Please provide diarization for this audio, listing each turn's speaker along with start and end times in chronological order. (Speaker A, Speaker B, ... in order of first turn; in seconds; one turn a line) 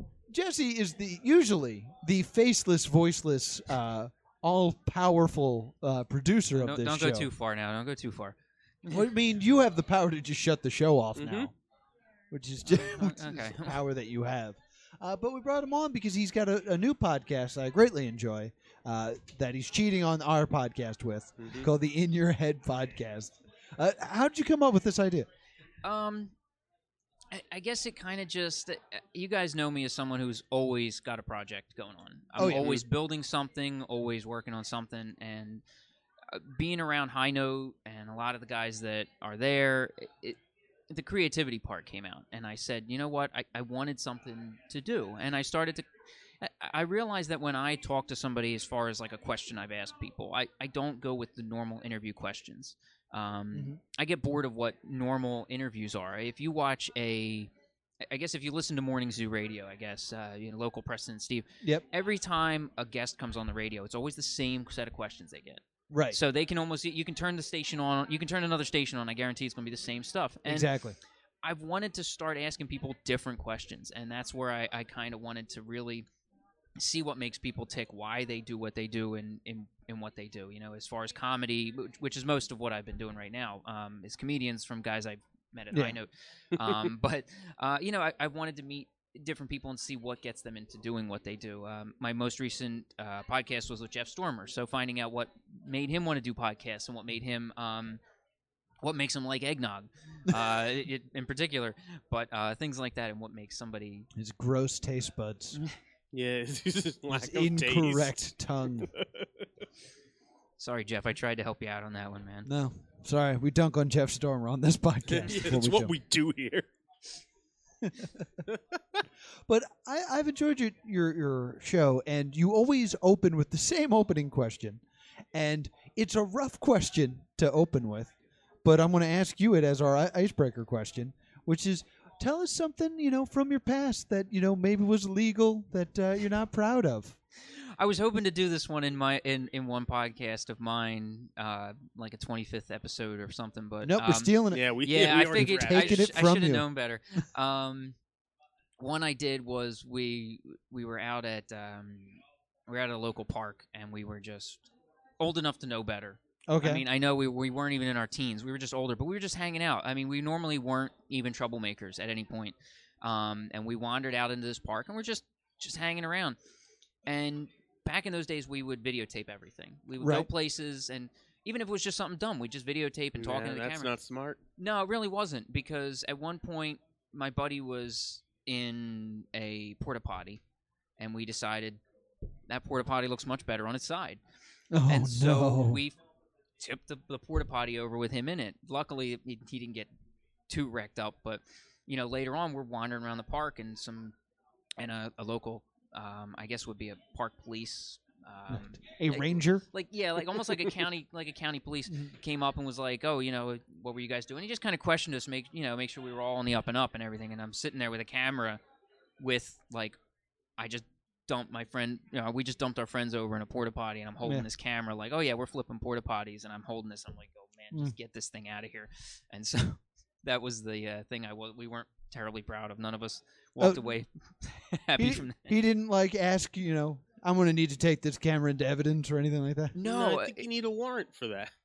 Speaker A: 0.3-7.3
Speaker B: 6.5-8.9
Speaker A: 8.8-11.6
Speaker C: 11.2-11.5
Speaker A: 12.3-25.3
Speaker B: 12.6-13.8
Speaker C: 21.4-21.7
Speaker B: 25.8-26.4
Speaker B: 27.3-35.6
Speaker A: 32.4-32.8
Speaker C: 32.4-32.8
Speaker B: 36.3-40.4
Speaker B: 40.9-45.9
Speaker B: 46.4-57.5
Speaker A: 53.5-53.8
Speaker B: 58.0-70.7
Speaker A: 65.9-66.2
Speaker A: 70.5-71.0
Speaker B: 71.4-76.1
Speaker B: 76.8-98.0
Speaker A: 85.7-86.0
Speaker B: 98.8-104.1
Speaker A: 104.2-105.6
Speaker C: 106.1-108.3
Speaker A: 107.1-108.9
Speaker C: 108.9-109.3
Speaker B: 110.6-112.5
Speaker A: 112.5-115.9
Speaker C: 115.1-116.7
Speaker A: 117.8-118.4
Speaker C: 118.5-119.0
Speaker A: 119.5-124.8
Speaker A: 125.3-128.1
Speaker A: 128.6-137.2
Speaker B: 137.5-148.0
Speaker A: 143.8-144.7
Speaker C: 144.5-146.1
Speaker A: 145.3-146.7
Speaker B: 148.8-154.7
Speaker B: 155.2-166.4
Speaker A: 156.5-156.9
Speaker B: 167.1-173.9
Speaker A: 170.0-170.3
Speaker C: 173.2-174.4
Speaker B: 174.6-180.4
Speaker B: 181.0-181.8
Speaker B: 182.5-184.2
Speaker A: 184.7-185.8
Speaker B: 184.9-186.0
Speaker B: 186.6-189.9
Speaker B: 190.5-194.2
Speaker B: 194.8-208.6
Speaker A: 198.5-199.7
Speaker A: 201.9-202.1
Speaker B: 209.2-210.0
Speaker B: 210.6-225.6
Speaker A: 214.2-214.5
Speaker A: 225.0-229.8
Speaker B: 229.7-230.5
Speaker C: 229.8-231.5